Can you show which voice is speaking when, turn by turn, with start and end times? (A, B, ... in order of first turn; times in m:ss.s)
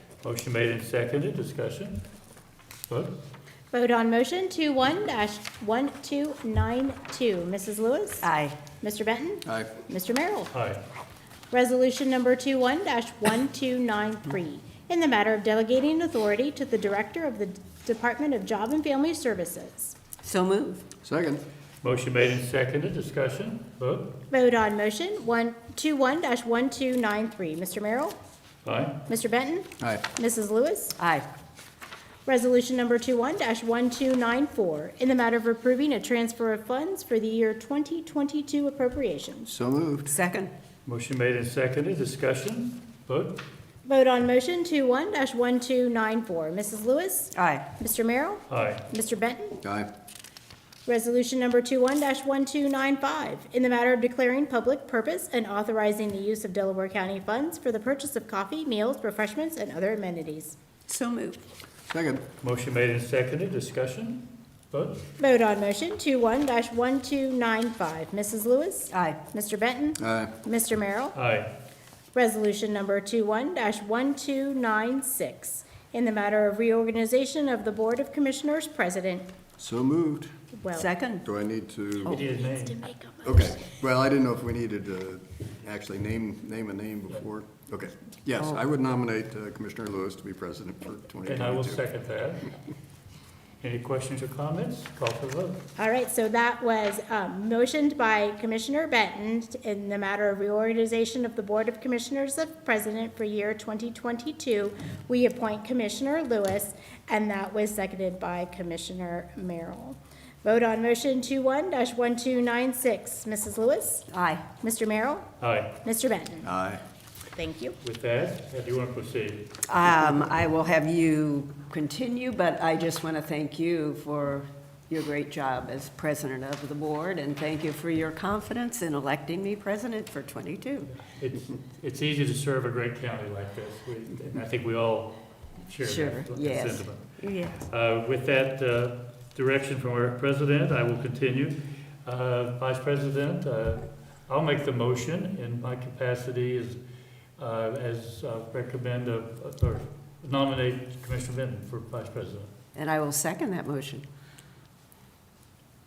0:00.2-0:02.0 A
0:02.9-0:03.2 A
0:03.7-0:08.3 B
0:08.2-0:08.6 C
0:08.8-0:10.5 B
0:09.5-0:09.8 D
0:10.5-0:10.8 A
0:11.5-0:20.0 B
0:20.2-0:20.8 C
0:21.0-0:21.4 D
0:21.8-0:24.2 A
0:24.3-0:28.2 B
0:28.6-0:29.0 A
0:29.1-0:31.0 B
0:29.8-0:30.0 D
0:31.0-0:31.3 C
0:32.3-0:39.5 B
0:39.5-0:40.2 D
0:40.1-0:40.5 C
0:40.9-0:43.4 A
0:43.8-0:49.6 B
0:47.4-0:47.7 C
0:48.5-0:48.8 A
0:49.6-0:49.9 D
0:50.9-1:00.6 B
1:00.9-1:01.4 C
1:01.9-1:02.3 D
1:02.4-1:05.1 A
1:05.2-1:11.2 B
1:08.9-1:09.2 C
1:10.0-1:10.3 D
1:11.2-1:11.5 A
1:12.1-1:19.3 B
1:19.6-1:20.3 D
1:20.5-1:20.9 B
1:20.7-1:21.2 C
1:21.2-1:22.2 D
1:22.1-1:22.8 A
1:22.3-1:23.6 B
1:23.2-1:31.9 D
1:31.2-1:32.5 A
1:33.6-1:35.6 A
1:35.8-1:54.1 B
1:54.1-1:54.5 C
1:54.6-1:55.3 B
1:55.4-1:55.8 A
1:55.8-1:56.5 B
1:56.4-1:56.8 D
1:57.4-1:57.8 B
1:57.8-1:59.6 A
1:59.7-2:10.9 C
2:10.9-2:17.2 A
2:15.8-2:17.7 C
2:17.7-2:26.8 A
2:27.4-2:32.5 A
2:32.8-2:34.1 C